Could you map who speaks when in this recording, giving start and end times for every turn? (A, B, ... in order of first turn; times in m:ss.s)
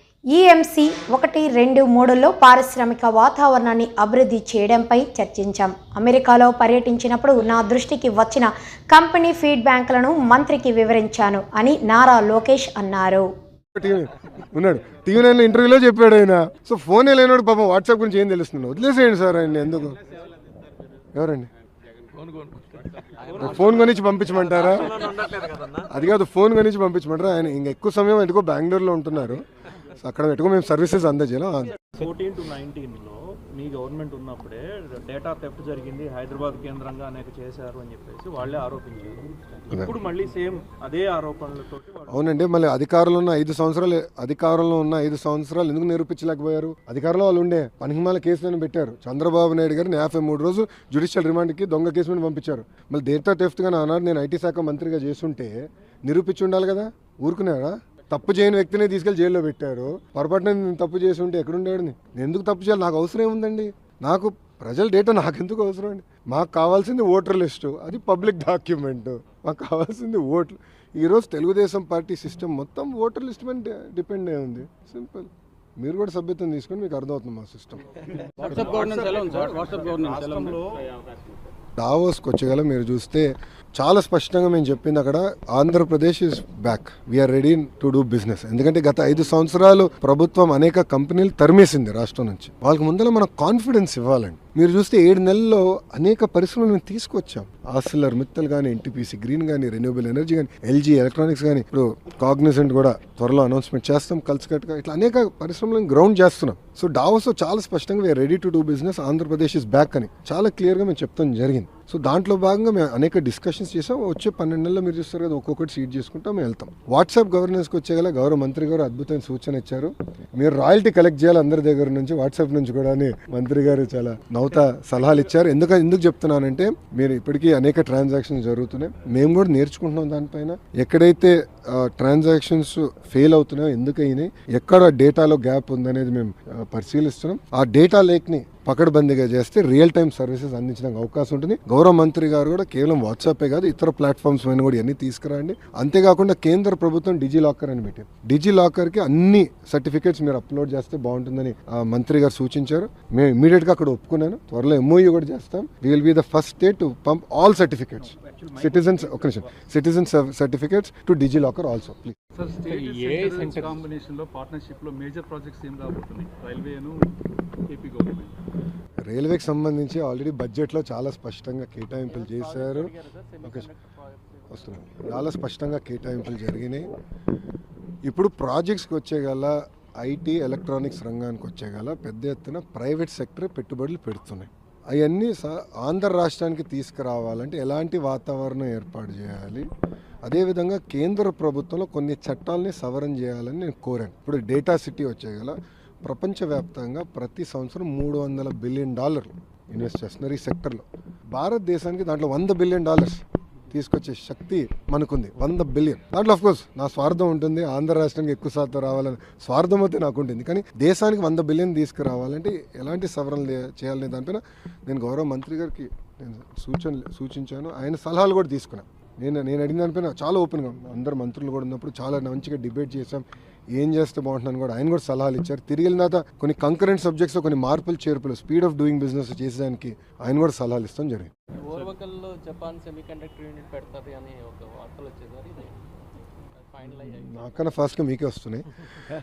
0:00.3-0:13.3 A
0:13.7-0:20.0 B
0:21.1-0:21.5 B
0:23.2-0:23.8 C
0:23.3-0:25.2 B
0:24.6-0:25.2 C
0:25.1-0:25.8 D
0:25.7-0:31.8 B
0:32.0-0:39.0 C
0:32.2-0:39.2 D
0:39.7-0:42.2 C
0:40.1-0:41.7 D
0:42.1-1:17.9 B
1:18.4-1:20.8 C
1:18.4-1:20.6 D
1:21.8-2:42.1 B
2:38.0-2:39.5 C
2:42.3-2:47.1 E
2:42.7-2:43.8 C
2:47.7-2:48.3 E
2:49.0-2:53.7 B
2:52.1-2:54.7 C
2:54.5-2:56.9 B
2:58.0-3:09.7 B
3:10.2-3:51.3 B
3:51.6-3:52.0 C
3:51.7-3:55.7 D
3:56.7-3:57.5 C
3:56.8-3:58.7 B